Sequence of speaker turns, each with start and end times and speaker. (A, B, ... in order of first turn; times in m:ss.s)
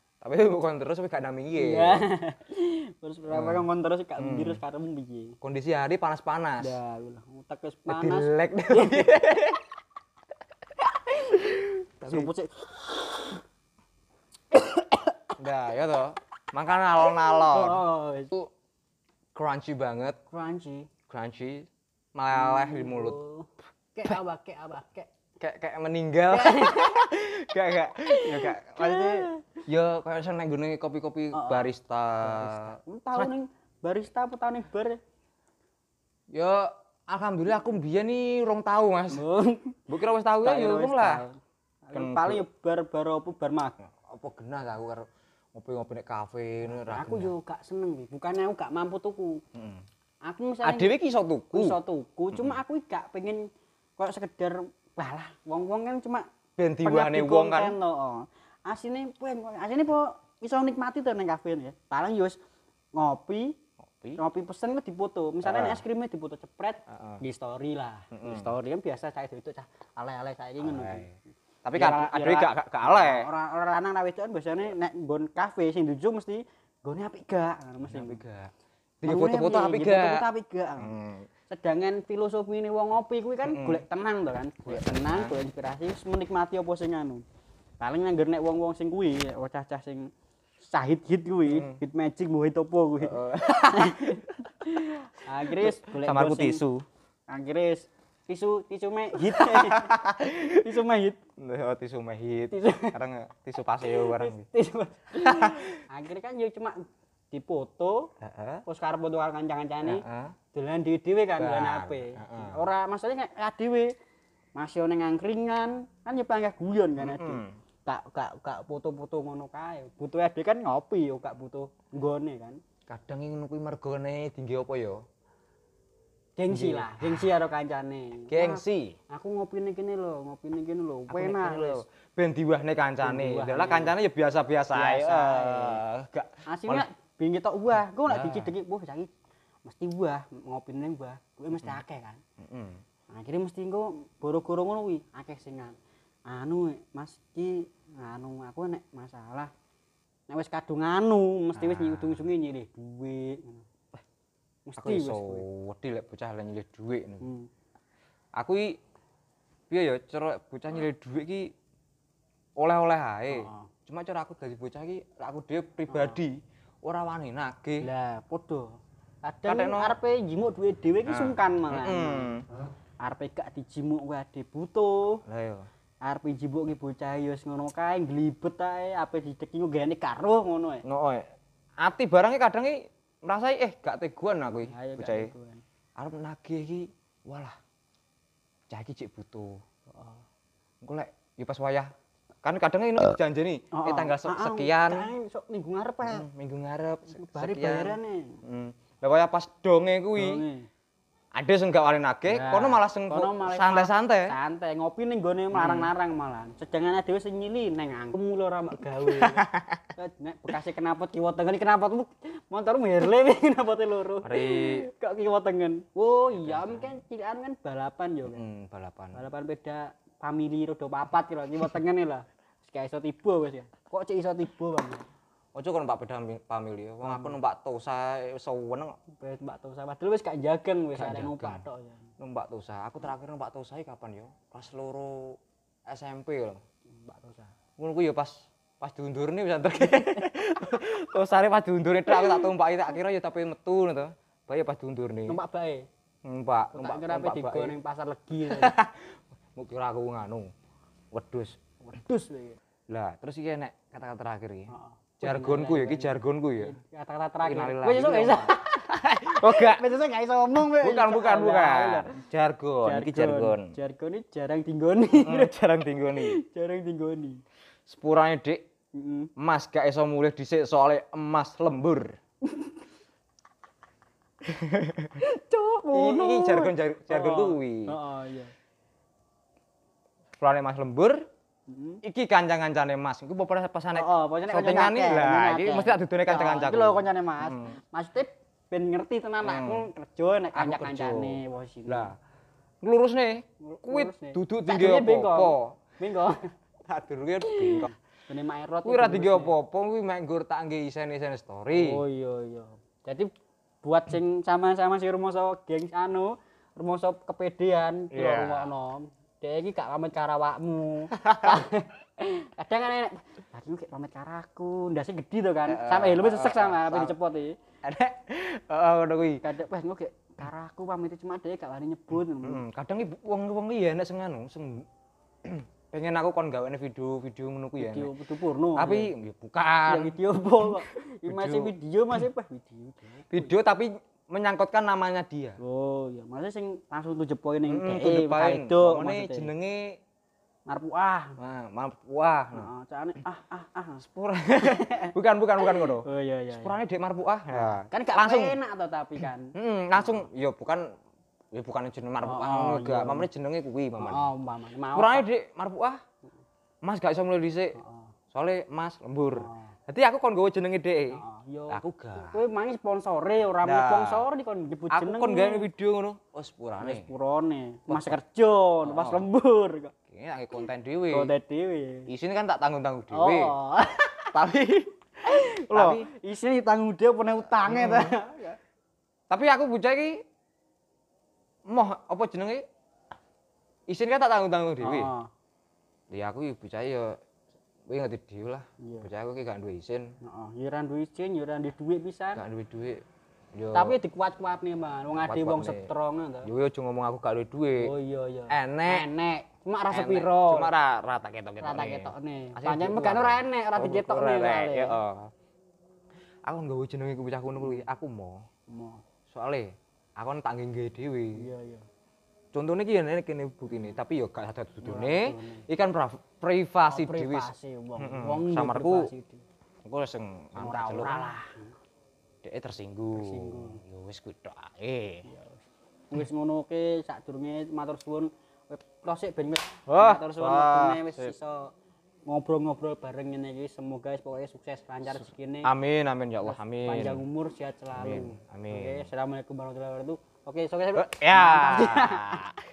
0:00.2-0:02.0 A
0:01.6-0:05.4 B
0:03.3-0:04.6 A
0:05.4-0:06.8 A
0:06.6-0:09.5 B
0:07.9-0:09.6 A
0:11.0-0:13.4 B
0:11.3-0:12.3 A
0:14.5-0:15.3 B
0:15.4-0:18.5 A
0:17.1-0:18.3 B
0:19.4-0:20.2 A
0:20.3-0:20.9 B
0:21.1-0:23.2 A
0:22.3-0:25.1 B
0:25.4-0:33.3 A
0:26.3-0:27.1 B
0:28.1-0:29.6 B
0:31.3-0:31.7 B
0:32.2-0:35.0 B
0:36.3-0:39.2 A
0:39.1-0:39.8 B
0:39.9-0:41.2 A
0:40.4-0:43.8 B
0:41.9-0:42.4 A
0:43.8-0:47.3 A
0:46.7-0:49.4 B
0:49.5-0:49.8 A
0:50.2-0:51.0 B
0:50.6-0:51.8 A
0:51.5-0:56.3 B
0:56.6-0:57.8 A
0:56.8-1:02.4 B
1:03.0-1:03.6 B
1:03.8-1:04.2 A
1:04.2-1:11.1 B
1:05.4-1:05.8 A
1:06.9-1:07.2 A
1:08.1-1:08.5 A
1:10.6-1:11.1 A
1:11.6-1:13.3 A
1:11.7-1:18.2 B
1:17.9-1:20.3 A
1:19.0-1:20.9 B
1:20.8-1:21.3 A
1:21.5-1:27.2 B
1:23.4-1:23.8 A
1:24.6-1:25.4 A
1:27.8-1:30.1 B
1:30.6-1:36.6 B
1:31.5-1:31.8 A
1:33.0-1:34.8 A
1:35.5-1:36.9 A
1:37.3-1:41.2 B
1:39.2-1:40.6 A
1:41.4-1:44.5 A
1:42.5-1:43.0 B
1:43.9-1:48.1 B
1:45.2-1:45.7 A
1:48.2-1:48.6 A
1:48.7-1:53.9 B
1:49.8-1:50.4 A
1:51.4-1:52.6 A
1:54.6-2:02.6 B
1:57.0-1:57.6 A
2:02.9-2:05.0 A
2:06.4-2:11.8 B
2:06.5-2:07.3 A
2:08.3-2:09.0 A
2:11.1-2:16.8 A
2:13.0-2:14.0 B
2:14.7-2:15.8 B
2:16.5-2:19.1 B
2:18.1-2:18.5 A
2:19.6-2:22.2 B
2:22.4-2:22.8 A
2:23.1-2:29.5 B
2:30.3-2:33.7 B
2:31.6-2:32.2 A
2:34.7-2:35.4 B
2:34.8-2:37.3 A
2:37.2-2:37.5 B
2:38.4-2:38.8 A
2:39.7-2:41.5 A
2:42.6-2:47.9 A
2:43.3-2:43.7 B
2:45.9-2:46.2 B
2:47.8-2:48.7 B
2:49.2-2:55.2 B
2:49.4-2:50.0 A
2:51.1-2:52.4 A
2:55.3-2:55.7 A
2:56.0-3:00.8 B
3:00.8-3:01.3 A
3:01.8-3:05.3 A
3:04.7-3:05.6 B
3:06.0-3:07.6 A
3:08.7-3:09.6 A
3:09.9-3:10.2 B
3:10.8-3:11.9 A
3:12.4-3:15.1 A
3:13.7-3:16.3 B
3:16.0-3:20.4 A
3:17.2-3:18.4 B
3:20.2-3:20.7 B
3:21.4-3:24.3 A
3:22.3-3:38.4 B
3:25.5-3:25.9 A
3:29.0-3:29.8 A
3:34.2-3:34.8 A
3:36.4-3:37.0 A
3:38.3-3:39.2 A
3:39.1-3:45.1 B
3:45.6-3:49.0 A
3:47.0-3:47.4 B
3:49.2-3:52.1 B
3:50.9-3:51.6 A
3:52.2-3:56.6 A
3:56.9-3:57.5 B
3:57.8-4:05.4 A
4:05.3-4:05.9 B
4:06.2-4:07.8 A
4:06.8-4:08.8 B
4:08.4-4:10.5 A
4:11.1-4:11.6 A
4:11.8-4:12.6 B
4:12.9-4:16.8 A
4:14.7-4:22.2 B
4:17.4-4:19.8 A
4:20.7-4:23.7 A
4:22.8-4:25.5 B
4:25.1-4:26.4 A
4:26.0-4:27.4 B
4:27.9-4:28.6 A
4:29.0-4:29.3 B
4:29.4-4:32.2 A
4:32.4-4:32.7 B
4:34.4-4:35.2 A
4:35.2-4:38.5 B
4:35.9-4:38.0 A
4:40.4-4:41.2 A
4:41.7-4:42.0 B
4:42.0-4:47.7 A
4:43.9-4:52.1 B
4:49.4-4:49.9 A
4:50.5-4:52.2 A
4:52.8-4:55.8 A
4:53.6-4:56.5 B
4:56.9-4:57.9 A
4:57.5-4:59.5 B
4:58.8-5:02.0 A
5:01.7-5:03.3 B
5:03.8-5:17.6 B
5:08.1-5:08.7 A
5:11.2-5:11.6 A
5:15.7-5:17.2 A
5:17.8-5:19.4 A
5:19.4-5:22.6 B
5:22.4-5:24.9 A
5:25.4-5:28.1 A
5:27.8-5:29.1 B
5:28.8-5:31.7 A
5:29.9-5:33.5 B
5:33.3-5:35.6 A
5:35.6-5:39.5 B
5:37.7-5:40.0 A
5:40.7-5:41.4 B
5:41.4-5:42.7 A
5:42.5-5:44.0 B
5:44.0-5:48.6 A
5:44.6-5:46.8 B
5:47.5-5:50.1 B
5:49.6-5:50.9 A
5:51.5-5:54.3 A
5:52.2-5:53.3 B
5:54.0-5:55.2 B
5:54.9-5:56.0 A
5:56.8-5:57.8 A
5:57.8-5:58.1 B
5:58.3-6:02.4 A
5:59.3-5:59.8 B
6:01.1-6:05.7 B
6:03.6-6:04.2 A
6:04.9-6:07.1 A
6:06.8-6:09.9 B
6:07.9-6:08.2 A
6:08.8-6:09.3 A
6:10.1-6:11.3 A
6:11.1-6:12.1 B
6:12.1-6:13.6 A
6:13.1-6:14.4 B
6:14.3-6:14.9 A
6:15.2-6:18.6 B
6:15.7-6:16.1 A
6:17.6-6:18.1 A
6:19.3-6:20.2 A
6:21.7-6:22.6 A
6:23.9-6:25.1 A
6:24.8-6:25.3 B
6:26.1-6:27.2 A
6:27.9-6:30.2 A
6:28.8-6:29.1 B
6:30.2-6:32.4 B
6:32.4-6:33.0 A
6:33.6-6:34.0 A
6:33.7-6:36.5 B
6:35.2-6:35.9 A
6:36.4-6:37.9 A
6:37.8-6:40.7 B
6:38.5-6:39.1 A
6:39.9-6:45.3 A
6:41.6-6:45.0 B
6:46.5-6:48.4 A
6:48.7-6:49.0 B
6:49.3-6:51.5 A
6:51.4-6:51.9 B
6:52.5-6:59.1 A
6:54.8-6:55.6 B
6:56.9-6:59.4 B
6:59.8-7:01.4 A
7:00.6-7:01.7 B
7:02.4-7:05.3 A
7:03.1-7:03.8 B
7:05.2-7:11.7 B
7:09.9-7:11.3 A
7:12.3-7:15.7 B
7:15.1-7:17.2 A
7:16.4-7:22.4 B
7:17.9-7:19.1 A
7:21.0-7:22.6 A